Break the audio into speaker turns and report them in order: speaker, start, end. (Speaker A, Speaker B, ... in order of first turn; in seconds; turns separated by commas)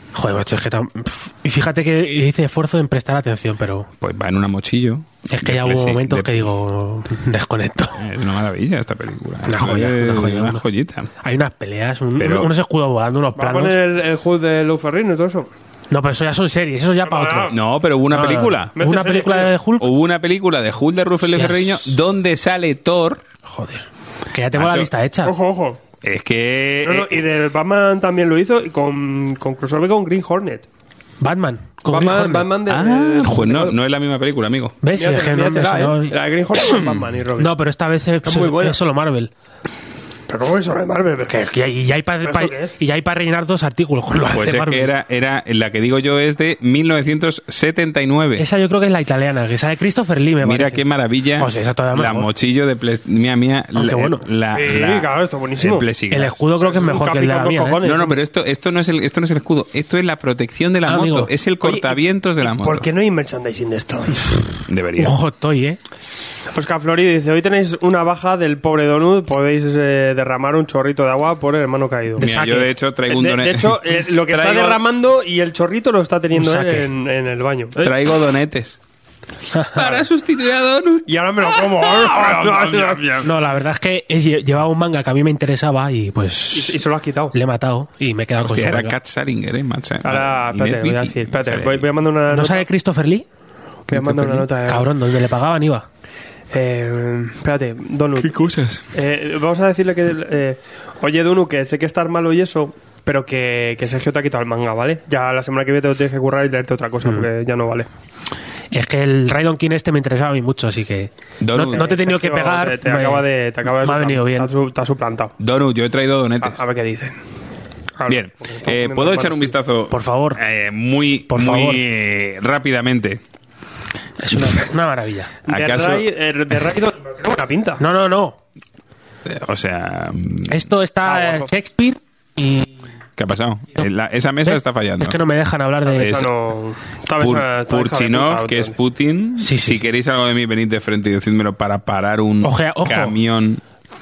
Speaker A: 0.1-3.9, Speaker B: 4.0-6.5, Speaker A: 5.3-8.1, Speaker B: 8.0-11.1, Speaker A: 9.4-10.6, Speaker A: 11.2-13.8, Speaker B: 12.2-12.5, Speaker C: 13.3-15.5, Speaker A: 15.9-17.6, Speaker C: 17.0-17.6, Speaker B: 17.5-18.8, Speaker A: 18.1-19.9, Speaker C: 18.7-19.5, Speaker B: 19.8-23.2, Speaker A: 21.2-22.0, Speaker A: 23.5-25.3, Speaker B: 24.5-24.9, Speaker C: 25.2-25.8, Speaker B: 26.0-27.2, Speaker C: 26.8-30.6, Speaker A: 31.2-32.5, Speaker C: 31.9-33.8, Speaker B: 32.7-34.8, Speaker A: 34.8-36.1, Speaker C: 34.9-37.5, Speaker A: 37.4-39.3, Speaker C: 38.2-38.8, Speaker C: 40.3-41.4, Speaker A: 41.3-44.9, Speaker C: 42.2-42.7, Speaker B: 44.2-48.5, Speaker A: 48.4-50.8, Speaker B: 50.4-56.4, Speaker A: 51.4-52.3, Speaker A: 53.7-54.2, Speaker C: 54.5-55.9, Speaker A: 56.1-57.8, Speaker C: 56.6-58.2, Speaker B: 57.8-62.9, Speaker A: 60.8-61.3, Speaker C: 61.6-64.5, Speaker B: 64.7-65.2, Speaker A: 65.0-65.8, Speaker C: 66.5-72.4, Speaker A: 72.2-72.7, Speaker B: 72.2-74.8, Speaker C: 73.1-77.9, Speaker A: 76.3-76.9, Speaker B: 77.8-78.8, Speaker A: 79.5-80.0, Speaker B: 79.7-83.3, Speaker C: 81.0-83.2, Speaker A: 83.2-86.8, Speaker C: 86.5-87.3, Speaker A: 87.3-89.0, Speaker B: 88.4-91.9, Speaker C: 90.0-92.7, Speaker A: 92.3-93.2, Speaker A: 93.9-95.8, Speaker C: 93.9-94.9, Speaker C: 96.5-98.4, Speaker B: 98.2-98.8, Speaker C: 98.9-107.9, Speaker A: 108.7-114.5, Speaker B: 111.4-111.8, Speaker C: 111.6-115.3, Speaker B: 115.4-116.6, Speaker C: 116.4-117.2, Speaker C: 118.0-119.6, Speaker B: 118.1-123.2, Speaker A: 119.9-120.4, Speaker A: 121.3-121.8, Speaker A: 124.2-125.3, Speaker C: 125.5-127.8, Speaker B: 125.5-126.1, Speaker A: 127.8-128.4, Speaker B: 129.2-130.7, Speaker A: 130.5-132.7, Speaker C: 131.0-131.5, Speaker B: 133.2-135.2, Speaker A: 134.4-136.3, Speaker C: 135.8-138.8, Speaker B: 137.2-143.6, Speaker A: 139.4-139.9, Speaker A: 142.4-143.2